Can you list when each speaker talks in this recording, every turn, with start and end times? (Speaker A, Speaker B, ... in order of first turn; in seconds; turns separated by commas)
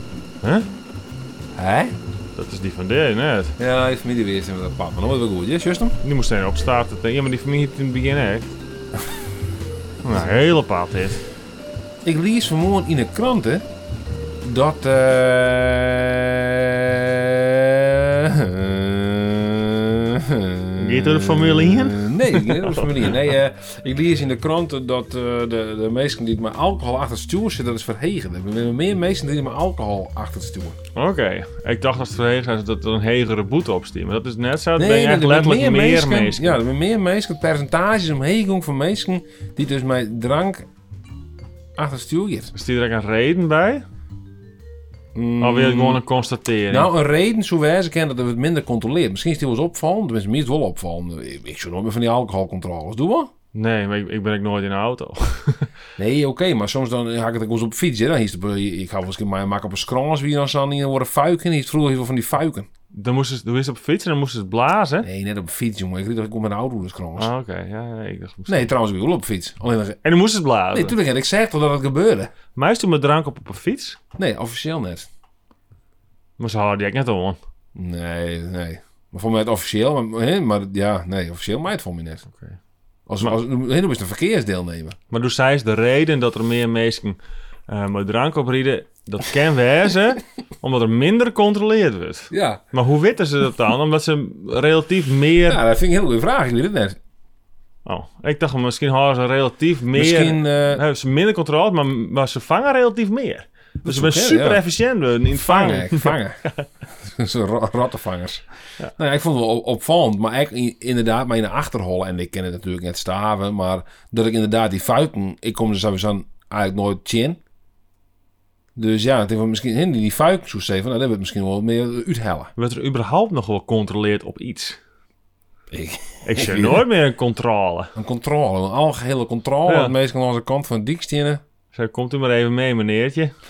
Speaker A: 0.4-0.7, Speaker B: 1.5-1.9, Speaker A: 2.4-3.5, Speaker B: 3.6-6.0, Speaker A: 6.0-8.5, Speaker A: 10.0-11.2, Speaker B: 12.0-13.7, Speaker B: 14.4-30.8, Speaker A: 20.8-23.2, Speaker A: 30.9-36.6, Speaker B: 34.8-40.7, Speaker B: 41.8-42.5, Speaker A: 42.5-43.8, Speaker B: 45.1-46.0, Speaker A: 45.4-46.9, Speaker B: 46.7-53.3, Speaker A: 53.5-55.7, Speaker B: 56.0-62.7, Speaker A: 62.9-65.1, Speaker B: 65.0-67.3, Speaker A: 67.2-68.7, Speaker B: 68.5-70.0, Speaker A: 70.0-71.0, Speaker B: 70.7-72.3, Speaker A: 72.5-74.0, Speaker B: 74.2-75.1, Speaker A: 76.4-77.4, Speaker B: 77.8-82.3, Speaker A: 82.3-82.6, Speaker B: 83.1-85.0, Speaker A: 85.1-95.6, Speaker B: 92.3-92.6, Speaker B: 95.5-97.0, Speaker A: 97.9-106.7, Speaker B: 99.9-100.8, Speaker B: 103.8-104.6, Speaker B: 105.3-106.4, Speaker B: 107.0-117.4, Speaker B: 118.8-122.5, Speaker A: 122.6-124.8, Speaker B: 125.7-126.9, Speaker A: 126.2-127.9, Speaker B: 128.0-131.4, Speaker A: 129.7-129.9, Speaker A: 131.7-133.3